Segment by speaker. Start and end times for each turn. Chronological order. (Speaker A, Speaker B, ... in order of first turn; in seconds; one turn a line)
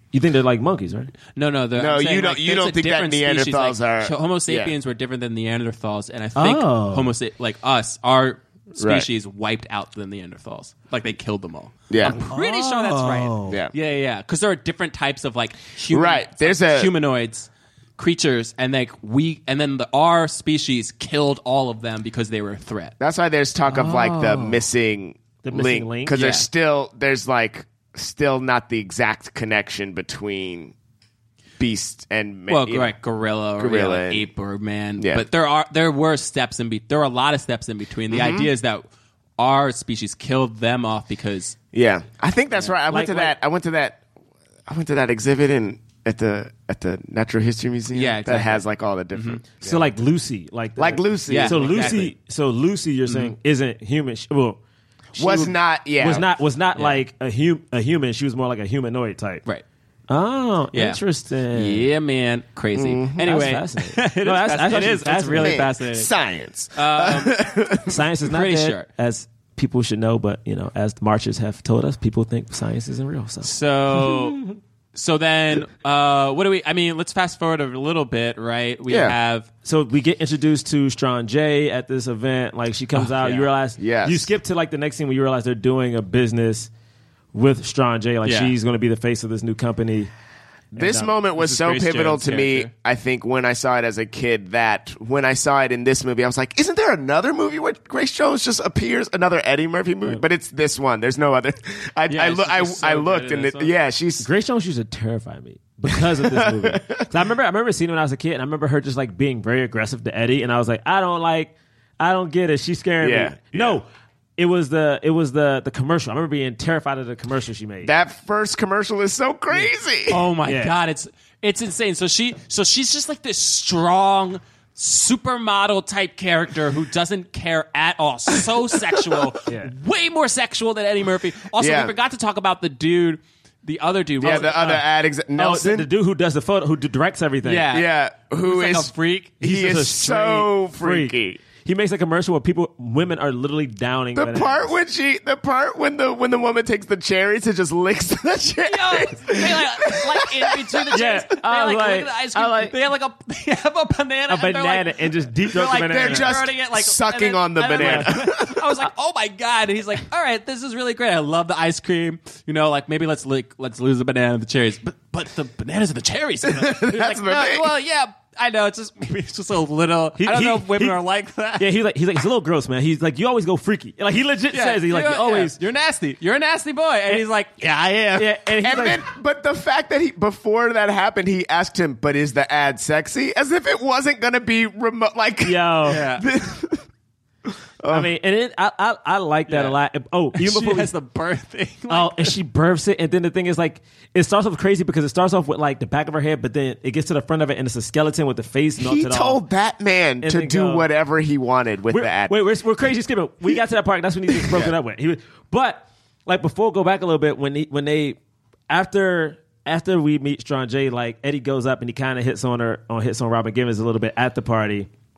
Speaker A: 0.1-1.1
Speaker B: 1.3-22.9
Speaker C: 1.8-4.7
Speaker A: 6.4-7.1
Speaker C: 8.8-9.1
Speaker C: 11.9-12.2
Speaker A: 12.0-13.6
Speaker C: 13.5-13.7
Speaker C: 15.9-16.9
Speaker C: 23.0-30.7
Speaker A: 23.6-24.6
Speaker A: 25.4-26.1
Speaker B: 26.1-26.4
Speaker C: 31.6-32.9
Speaker B: 32.5-38.8
Speaker C: 33.6-34.2
Speaker C: 35.0-35.2
Speaker C: 38.1-38.5
Speaker B: 39.4-41.5
Speaker C: 41.7-44.0
Speaker A: 42.9-43.3
Speaker C: 44.7-49.9
Speaker B: 47.9-49.4
Speaker A: 49.6-54.6
Speaker C: 50.8-52.0
Speaker B: 51.3-52.1
Speaker B: 53.1-53.3
Speaker A: 55.1-59.4
Speaker C: 55.1-56.2
Speaker A: 60.1-61.9
Speaker B: 60.7-61.0
Speaker B: 61.5-66.1
Speaker C: 62.7-63.2
Speaker A: 63.2-65.6
Speaker C: 65.4-68.0
Speaker B: 66.7-67.4
Speaker A: 67.9-74.6
Speaker B: 68.2-68.8
Speaker B: 73.4-74.4
Speaker B: 74.9-79.5
Speaker C: 78.9-79.1
Speaker A: 79.6-86.7
Speaker B: 82.9-83.5
Speaker C: 83.8-84.3
Speaker A: 87.3-90.1
Speaker B: 88.2-88.5
Speaker A: 90.7-91.1
Speaker C: 90.8-104.3
Speaker B: 91.4-92.7
Speaker B: 102.1-103.7
Speaker A: 104.2-117.9
Speaker C: 106.2-107.0
Speaker C: 113.0-113.8
Speaker C: 117.8-120.2
Speaker B: 120.1-134.8
Speaker A: 120.5-120.7
Speaker C: 131.6-131.9
Speaker C: 134.2-135.9
Speaker A: 134.2-134.8
Speaker A: 135.3-137.7
Speaker B: 137.4-139.4
Speaker C: 137.7-141.4
Speaker A: 139.4-144.7
Speaker C: 144.2-151.0
Speaker B: 148.7-171.7
Speaker A: 150.9-152.7
Speaker A: 154.3-156.3
Speaker C: 155.6-158.7
Speaker A: 157.7-158.1
Speaker C: 166.4-167.7
Speaker A: 170.2-171.0
Speaker A: 171.6-175.6
Speaker B: 174.5-178.3
Speaker A: 178.2-179.0
Speaker C: 178.6-186.8
Speaker A: 185.4-186.0
Speaker B: 185.9-186.2
Speaker C: 187.8-188.1
Speaker A: 187.9-190.9
Speaker B: 189.5-189.8
Speaker B: 190.3-192.4
Speaker A: 191.9-199.4
Speaker C: 198.8-202.4
Speaker A: 200.2-200.9
Speaker A: 201.9-208.2
Speaker C: 204.3-204.7
Speaker A: 208.7-214.9